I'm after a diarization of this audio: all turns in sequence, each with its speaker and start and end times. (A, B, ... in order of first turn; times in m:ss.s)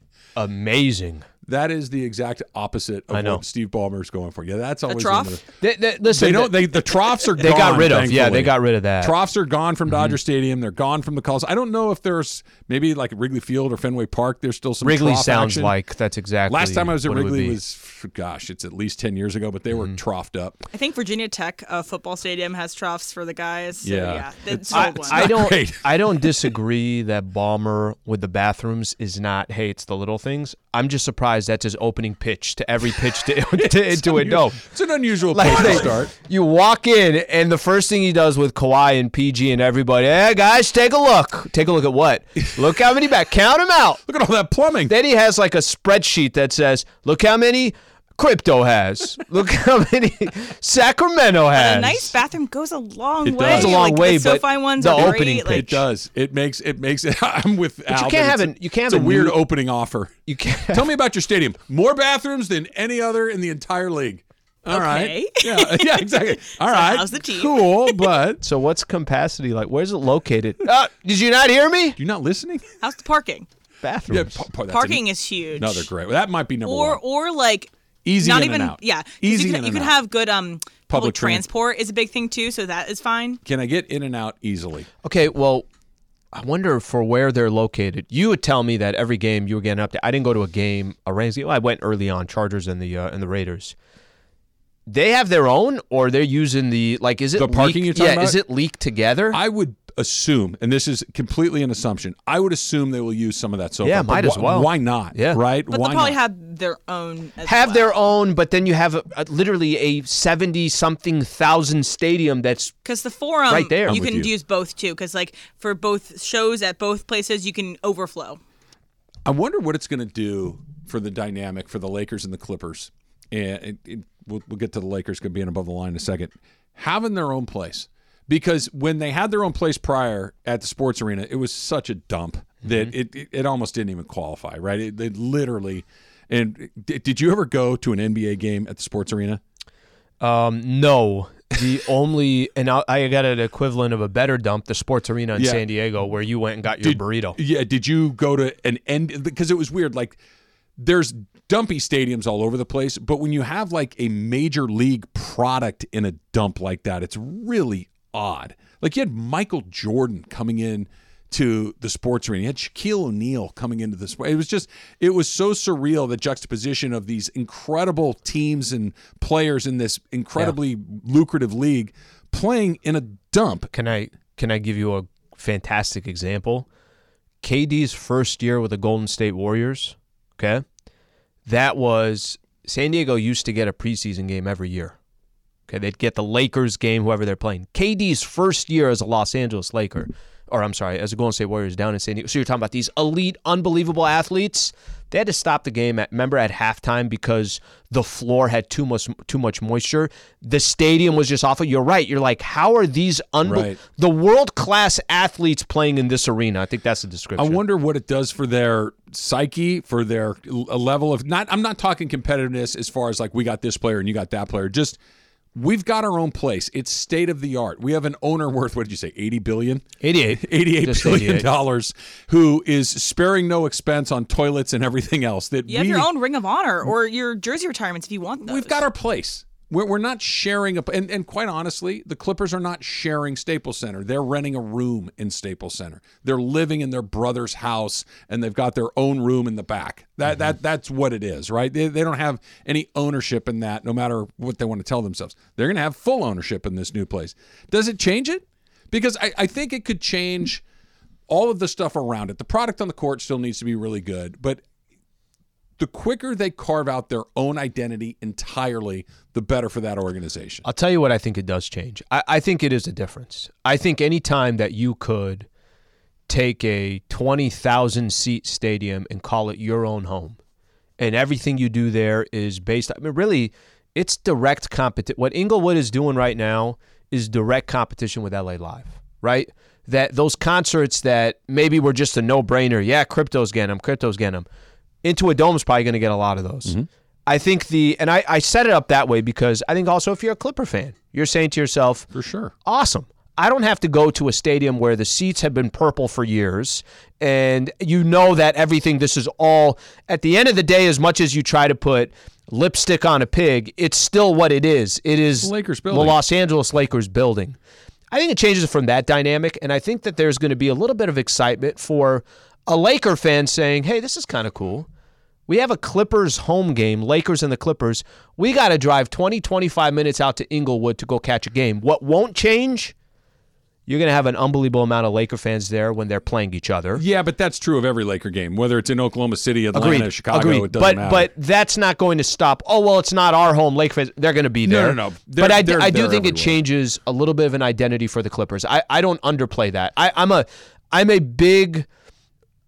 0:00.4-0:01.3 A
0:01.5-0:05.4 B
0:03.1-0:03.4 A
0:04.9-0:05.4 C
0:05.6-0:06.6 A
0:06.1-0:15.8 B
0:07.4-0:09.2 A
0:09.9-0:10.2 A
0:14.8-0:17.6 A
0:16.5-0:20.6 B
0:20.7-0:25.3 C
0:23.8-0:26.5 B
0:24.7-0:34.6 A
0:33.6-0:36.1 B
0:35.3-0:44.0 A
0:44.1-0:44.9 B
0:44.9-0:52.1 A
0:51.6-0:55.7 C
0:53.2-0:53.8 B
0:53.5-0:55.8 A
0:54.9-1:00.2 B
0:57.9-0:59.4 A
1:00.3-1:00.9 A
1:00.7-1:08.4 B
1:04.7-1:08.1 C
1:08.4-1:12.0 A
1:12.0-1:12.7 B
1:12.8-1:13.5 C
1:13.8-1:14.4 A
1:14.1-1:15.0 B
1:14.7-1:15.9 C
1:15.6-1:17.0 B
1:16.7-1:23.4 C
1:18.0-1:19.9 B
1:20.9-1:21.4 B
1:23.4-1:24.9 B
1:25.0-1:25.7 A
1:26.3-1:33.8 A
1:34.9-1:39.4 A
1:37.4-1:38.4 B
1:39.3-1:46.2 B
1:43.8-1:45.4 A
1:45.7-1:47.9 C
1:47.4-1:52.7 A
1:52.8-1:58.4 C
1:53.5-1:54.0 A
1:53.9-1:54.3 B
1:59.2-2:19.4 B
2:20.2-2:27.4 A
2:25.4-2:25.6 B
2:26.8-2:30.2 B
2:30.8-2:53.7 B
2:53.7-2:56.7 A
2:57.4-3:00.6 A
3:01.5-3:05.0 A
3:05.7-3:27.6 A
3:23.4-3:23.8 B
3:27.4-3:35.0 B
3:35.5-3:46.1 B
3:40.0-3:41.5 A
3:45.7-3:48.8 C
3:48.4-4:10.6 B
4:11.3-4:14.6 B
4:15.8-4:20.6 B
4:20.6-4:25.5 A
4:26.3-4:30.4 A
4:31.0-4:44.5 A
4:45.0-4:52.1 A
4:52.1-4:52.5 B
4:52.6-5:07.6 A
5:05.4-5:06.2 B
5:08.1-5:14.9 A
5:15.5-5:22.9 A
5:23.9-5:27.0 A
5:27.0-5:31.3 B
5:29.7-5:41.9 A
5:34.6-5:36.6 B